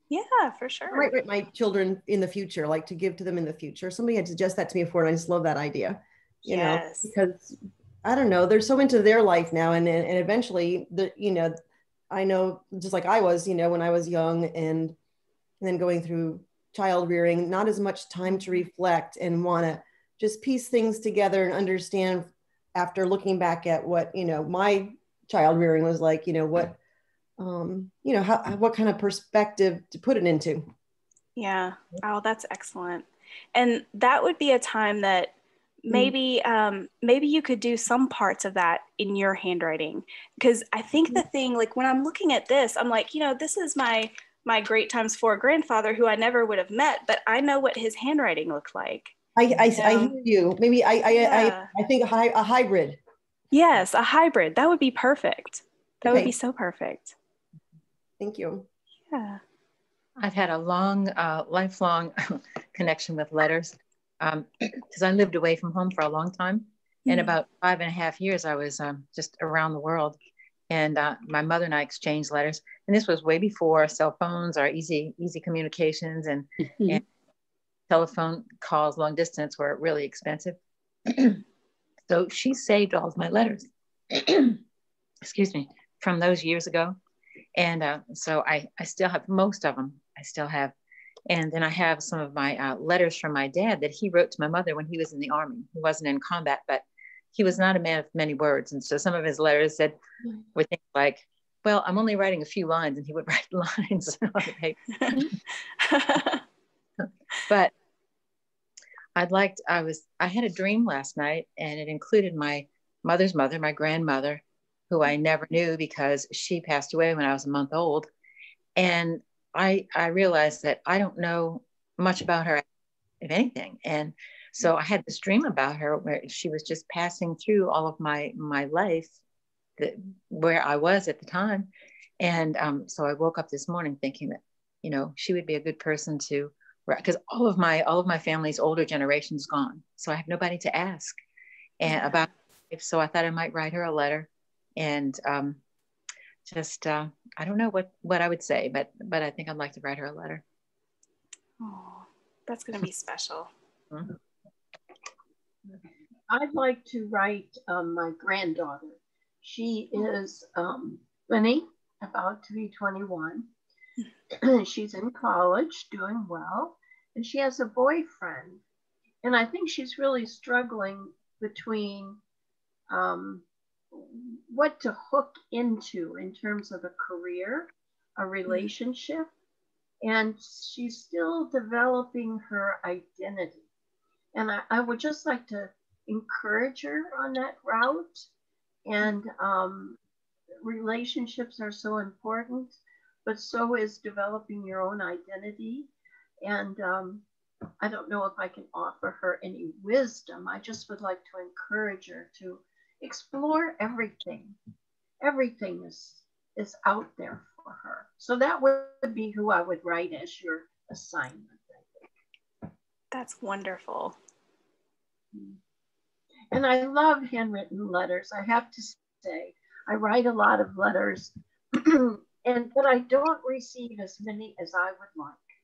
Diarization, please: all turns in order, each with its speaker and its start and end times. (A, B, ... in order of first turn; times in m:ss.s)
0:00.1-0:01.1 A
0:00.9-0:11.6 B
0:06.4-0:07.1 A
0:12.1-0:15.0 B
0:15.6-0:26.8 B
0:27.4-0:30.7 B
0:31.4-0:35.3 A
0:35.8-0:49.1 A
0:49.4-0:53.0 B
0:49.7-0:50.1 A
0:51.1-0:51.7 A
0:53.5-0:57.1 A
0:56.0-0:56.3 B
0:58.2-0:58.6 B
0:59.1-0:59.4 A
1:00.2-1:10.2 C
1:10.7-1:17.0 C
1:17.9-1:21.4 C
1:22.1-1:24.6 C
1:25.2-1:27.0 C
1:27.5-1:30.7 C
1:31.3-1:40.0 C
1:40.5-1:45.3 C
1:45.0-1:46.4 A
1:47.5-1:47.7 C
1:49.2-1:58.1 C
1:58.8-2:02.6 C
2:03.2-2:09.1 C
2:09.8-2:11.7 C
2:12.2-2:21.2 C
2:21.8-2:25.6 C
2:21.9-2:22.2 A
2:26.4-2:30.4 C
2:31.6-2:33.5 A
2:35.7-2:43.5 D
2:44.3-2:48.6 D
2:49.2-2:52.2 D
2:52.9-2:59.3 D
3:00.0-3:03.6 D
3:04.3-3:08.3 D
3:08.8-3:10.0 D
3:10.6-3:15.9 D
3:16.4-3:17.2 D
3:17.8-3:24.6 D
3:25.2-3:32.0 D
3:33.1-3:34.2 A
3:35.3-3:35.6 D
3:36.5-3:45.4 D